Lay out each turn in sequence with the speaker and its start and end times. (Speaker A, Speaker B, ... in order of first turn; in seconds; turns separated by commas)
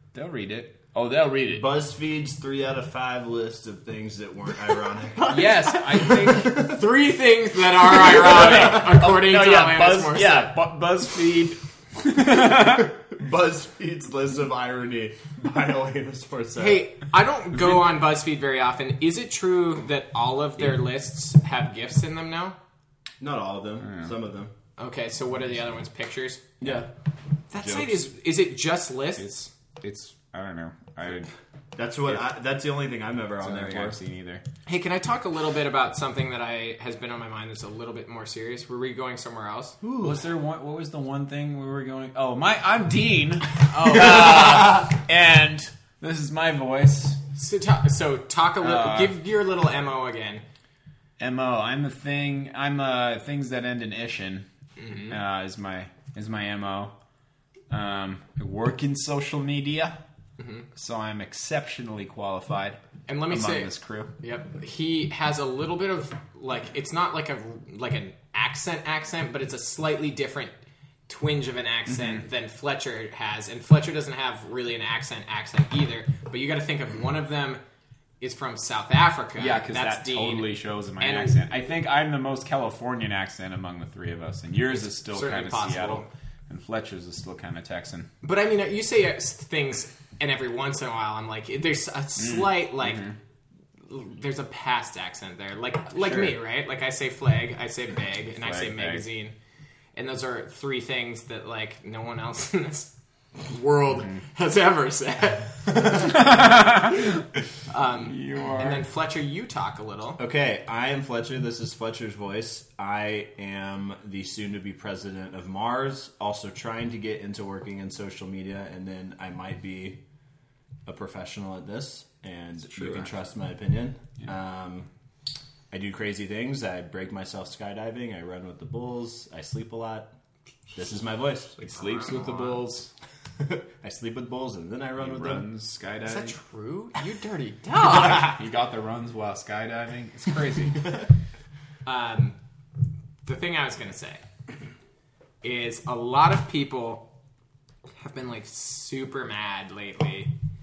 Speaker A: 0.1-1.7, Speaker B: 1.5-6.8, Speaker C: 5.3-10.5, Speaker A: 5.5-6.5, Speaker A: 7.9-12.9, Speaker B: 12.5-16.9, Speaker C: 16.6-22.6, Speaker A: 17.6-17.9, Speaker B: 23.2-24.5, Speaker A: 23.8-24.1, Speaker C: 24.8-26.8, Speaker B: 26.6-26.9, Speaker C: 27.5-29.5, Speaker B: 27.6-28.0, Speaker A: 29.2-31.3, Speaker B: 31.8-34.0, Speaker A: 33.4-34.4, Speaker C: 34.7-39.8, Speaker B: 39.8-40.2, Speaker A: 40.0-47.2, Speaker C: 43.7-44.8, Speaker C: 47.4-50.4, Speaker A: 48.6-49.2, Speaker A: 51.2-54.5, Speaker C: 54.8-55.2, Speaker A: 55.1-56.9, Speaker A: 57.7-60.0, Speaker C: 60.4-60.7, Speaker A: 60.7-64.1, Speaker C: 63.1-70.5, Speaker C: 71.1-77.6, Speaker A: 71.9-72.2, Speaker C: 78.2-81.5, Speaker A: 79.4-88.1, Speaker C: 84.8-86.1, Speaker C: 88.2-93.1, Speaker A: 92.2-93.2, Speaker C: 93.9-99.3, Speaker A: 96.0-96.3, Speaker A: 98.4-99.0, Speaker C: 100.0-106.4, Speaker A: 105.8-107.2, Speaker C: 107.7-110.2, Speaker A: 108.0-108.8, Speaker B: 110.2-120.0, Speaker B: 120.9-124.9, Speaker A: 122.7-123.1, Speaker B: 125.7-130.1, Speaker B: 130.8-131.6, Speaker A: 131.6-132.9, Speaker C: 131.7-132.6, Speaker B: 133.4-135.5, Speaker A: 135.0-136.4, Speaker C: 136.1-138.4, Speaker A: 137.8-140.9, Speaker C: 141.9-142.4, Speaker C: 143.3-144.2, Speaker C: 145.4-147.1, Speaker C: 147.9-150.3